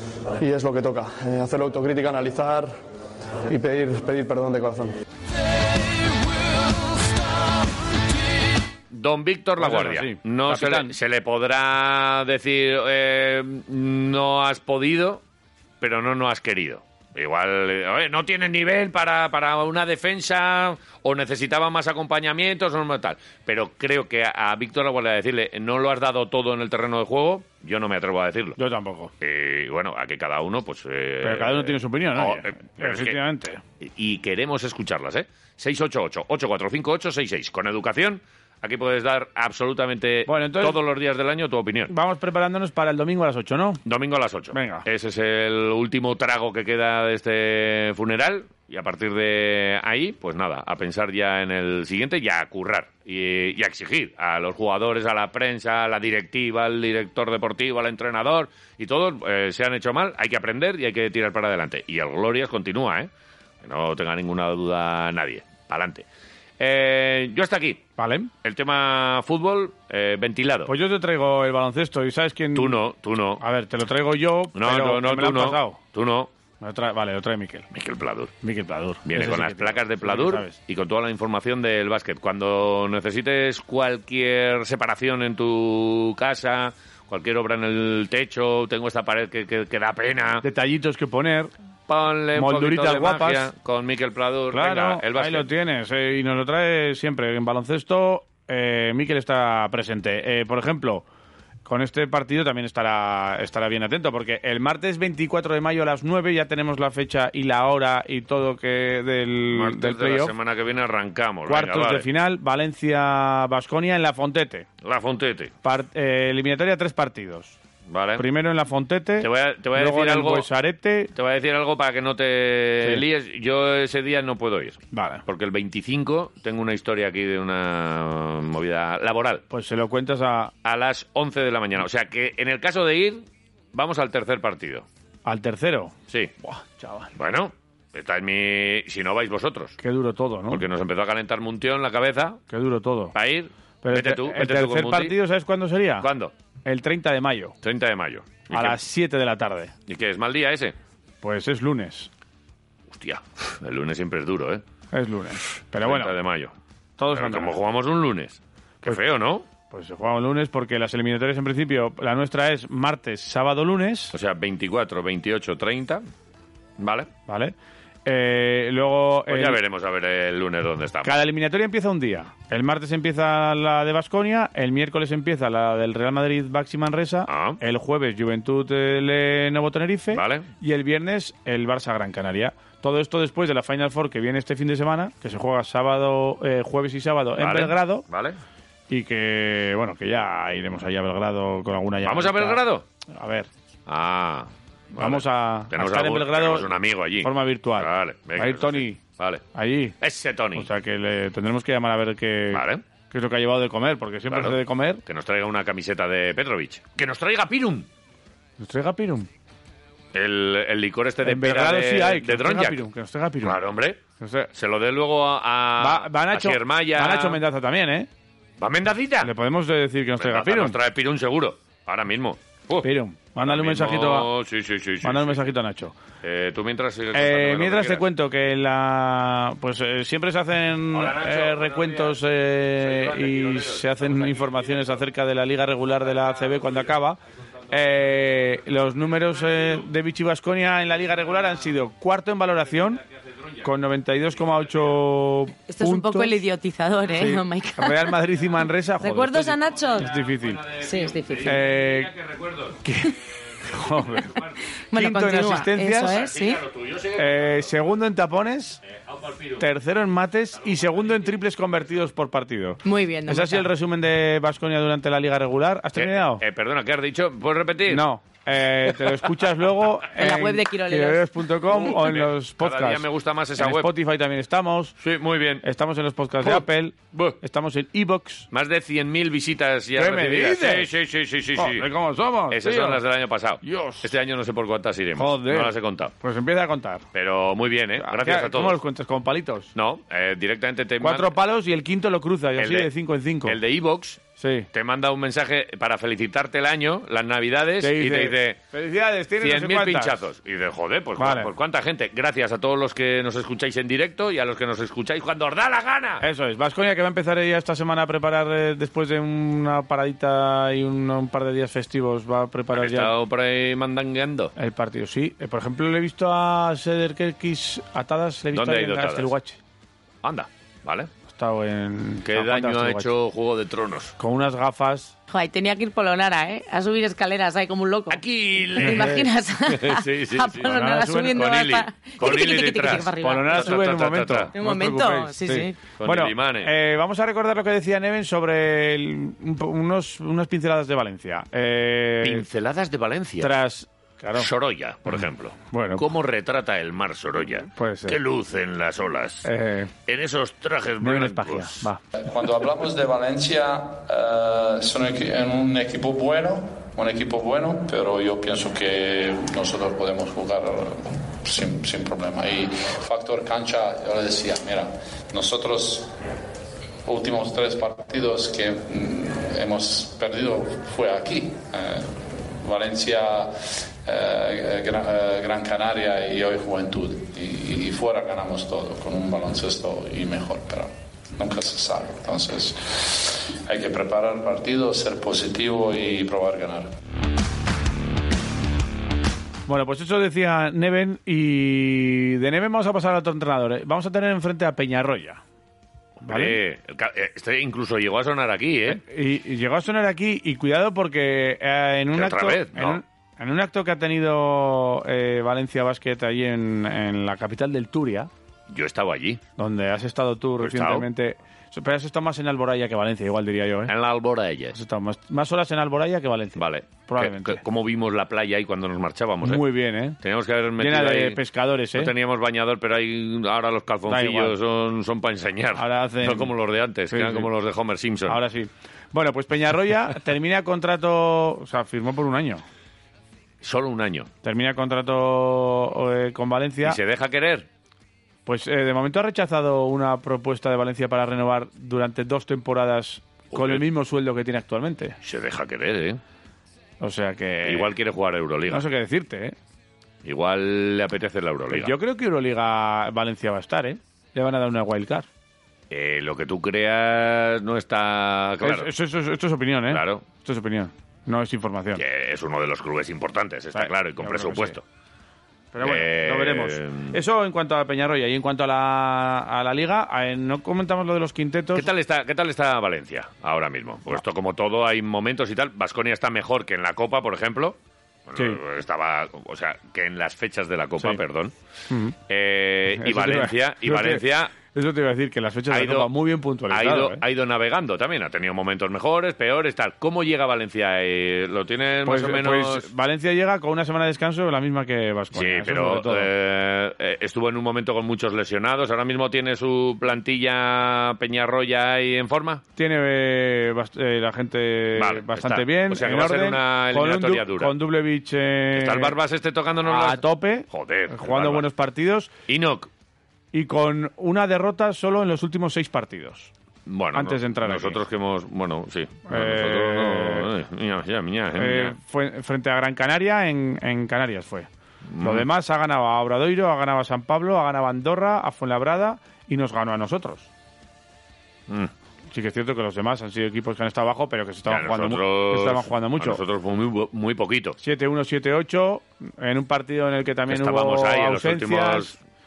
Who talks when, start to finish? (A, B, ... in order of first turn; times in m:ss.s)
0:00.4-0:02.7 A
0:03.5-0:05.0 A
0:08.9-0:15.2 B
0:09.6-0:10.9 C
0:15.8-0:28.6 B
0:28.6-0:29.1 C
0:29.2-0:33.2 B
0:31.2-0:33.6 C
0:33.8-0:41.9 B
0:40.3-0:40.8 C
0:41.9-0:43.8 C
0:43.8-1:03.1 B
0:44.5-0:44.8 C
1:03.6-1:06.0 B
1:06.6-1:07.8 B
1:08.0-1:08.3 C
1:08.4-1:10.7 B
1:10.7-1:12.8 C
1:12.6-1:13.4 B
1:13.4-1:15.8 C
1:14.6-1:16.3 B
1:16.6-1:17.7 C
1:17.7-1:18.3 B
1:18.4-1:20.6 C
1:19.0-1:30.4 B
1:30.4-1:31.5 C
1:31.9-1:35.5 B
1:32.4-1:33.5 C
1:34.5-1:41.0 C
1:41.6-1:50.3 C
1:49.5-1:52.1 B
1:51.5-1:54.7 C
1:54.8-1:55.5 B
1:55.6-1:57.6 C
1:57.9-1:58.2 B
1:58.2-2:01.1 C
1:59.2-2:00.5 B
2:01.1-2:09.4 B
2:04.9-2:05.2 C
2:09.5-2:10.5 C
2:10.6-2:14.9 B
2:15.2-2:17.1 C
2:17.2-2:19.8 B
2:19.8-2:20.6 C
2:20.5-2:22.4 B
2:22.5-2:23.2 C
2:23.1-2:25.2 B
2:23.8-2:26.1 C
2:26.0-2:26.3 B
2:26.6-2:27.5 C
2:27.6-2:28.8 B
2:28.5-2:29.7 C
2:29.9-2:30.8 B
2:31.2-2:32.1 C
2:32.9-2:34.6 B
2:34.9-2:36.2 C
2:35.8-2:36.5 B
2:37.0-2:37.6 C
2:37.1-2:39.4 B
2:39.7-2:44.1 C
2:44.1-2:46.0 B
2:46.8-2:47.1 B
2:47.3-2:47.6 C
2:48.1-2:49.6 C
2:49.3-2:51.1 B
2:51.0-3:08.0 C
2:57.3-2:57.6 B
3:00.1-3:00.5 B
3:07.4-3:08.4 B
3:08.9-3:13.5 C
3:12.0-3:12.8 B
3:13.9-3:19.4 B
3:15.0-3:16.7 C
3:17.2-3:19.0 C
3:19.6-3:20.0 C
3:20.0-3:20.7 B
3:20.6-3:25.0 C
3:22.5-3:22.8 B
3:24.3-3:27.9 B
3:28.6-3:29.3 C
3:30.1-3:32.8 B
3:31.2-3:33.6 C
3:33.4-3:34.0 B
3:34.2-3:34.5 C
3:34.5-3:37.4 B
3:35.8-3:38.1 C
3:38.6-3:39.3 B
3:39.2-3:40.8 C
3:40.2-3:45.5 B
3:42.8-3:44.3 C
3:45.0-3:46.0 C
3:46.2-3:48.0 B
3:47.1-3:57.2 C
3:50.9-3:52.2 B
3:52.8-3:55.0 B
3:56.1-3:56.9 B
3:57.7-4:03.0 C
3:59.5-3:59.8 B
4:03.0-4:03.7 B
4:03.6-4:06.4 C
4:05.7-4:08.2 D
4:07.2-4:10.6 C
4:09.0-4:10.1 D
4:09.9-4:14.7 B
4:10.8-4:11.6 D
4:11.4-4:12.1 C
4:12.8-4:13.1 C
4:13.6-4:14.4 C
4:14.9-4:16.6 D
4:15.0-4:16.2 C
4:16.0-4:17.7 B
4:17.2-4:18.8 C
4:18.8-4:19.6 B
4:19.6-4:26.4 C
4:20.6-4:21.3 B
4:22.8-4:23.7 D
4:26.0-4:28.0 B
4:27.9-4:33.0 C
4:30.2-4:31.3 D
4:31.7-4:33.9 B
4:33.6-4:34.9 C
4:35.0-4:35.6 B
4:35.6-4:38.5 C
4:36.4-4:37.4 B
4:38.5-4:41.9 B
4:40.0-4:40.9 C
4:41.6-4:43.0 C
4:42.5-4:46.1 B
4:43.6-4:44.1 C
4:45.2-4:47.0 C
4:47.1-4:48.8 B
4:48.0-4:49.7 C
4:49.8-4:51.3 B
4:51.0-4:53.6 C
4:52.6-4:52.9 B
4:53.4-4:58.6 B
4:54.4-4:54.7 C
4:57.8-5:00.2 C
4:59.4-5:06.2 B
5:01.2-5:01.5 C
5:06.2-5:13.1 C
5:12.7-5:14.5 B
5:14.6-5:19.6 C
5:18.5-5:19.3 B
5:20.2-5:21.1 B
5:21.3-5:23.1 C
5:22.2-5:24.2 B
5:24.2-5:25.1 C
5:25.3-5:33.8 D
5:28.1-5:30.8 B
5:28.8-5:29.3 C
5:30.6-5:31.5 C
5:31.3-5:34.5 B
5:33.2-5:42.4 C
5:34.6-5:35.8 D
5:36.0-5:36.7 B
5:42.2-5:43.5 B
5:43.4-5:44.5 C
5:44.4-5:49.5 B
5:45.7-5:46.1 C
5:47.8-5:48.2 C
5:49.4-5:49.9 C
5:50.1-5:51.9 B
5:51.0-5:52.0 C
5:52.2-6:06.1 E
6:07.0-6:26.9 E
6:29.7-6:35.4 C
6:36.2-6:39.0 B
6:36.3-6:36.6 C
6:38.9-6:48.3 C
6:42.1-6:43.0 B
6:48.7-6:49.4 B
6:49.6-6:53.9 C
6:50.6-6:51.1 B
6:53.9-6:54.8 B
6:54.7-6:57.6 C
6:56.6-7:01.4 B
6:59.4-7:00.2 C
7:00.8-7:02.1 C
7:01.9-7:08.4 B
7:04.1-7:04.6 C
7:05.8-7:06.5 C
7:07.1-7:07.5 C
7:08.3-7:12.6 C
7:13.6-7:14.3 B
7:14.4-7:17.0 C
7:16.8-7:17.7 B
7:18.5-7:25.2 C
7:23.5-7:23.8 B
7:25.2-7:26.2 B
7:27.0-7:27.9 C
7:27.6-7:28.8 B
7:28.7-7:29.6 C
7:30.2-7:31.9 B
7:31.7-7:35.3 C
7:35.9-7:38.9 B
7:38.6-7:42.0 C
7:39.9-7:40.2 B
7:42.0-7:44.8 B
7:43.7-7:44.8 C
7:45.7-7:51.9 C
7:45.8-7:47.2 B
7:51.8-8:01.5 B
8:01.9-8:02.2 C
8:02.3-8:04.5 B
8:03.0-8:07.2 C
8:05.7-8:06.1 B
8:06.7-8:12.9 B
8:12.0-8:16.3 C
8:15.3-8:22.6 B
8:22.8-8:29.2 C
8:25.0-8:27.8 B
8:28.8-8:31.6 B
8:29.8-8:32.3 C
8:32.5-8:32.9 B
8:33.5-8:36.5 C
8:36.9-8:42.0 B
8:37.1-8:38.0 C
8:39.3-8:40.5 C
8:41.6-8:44.7 C
8:45.1-8:45.5 B
8:45.2-8:50.5 C
8:52.3-8:56.4 C
8:54.7-8:57.8 B
8:57.8-9:02.2 C
9:00.5-9:02.2 B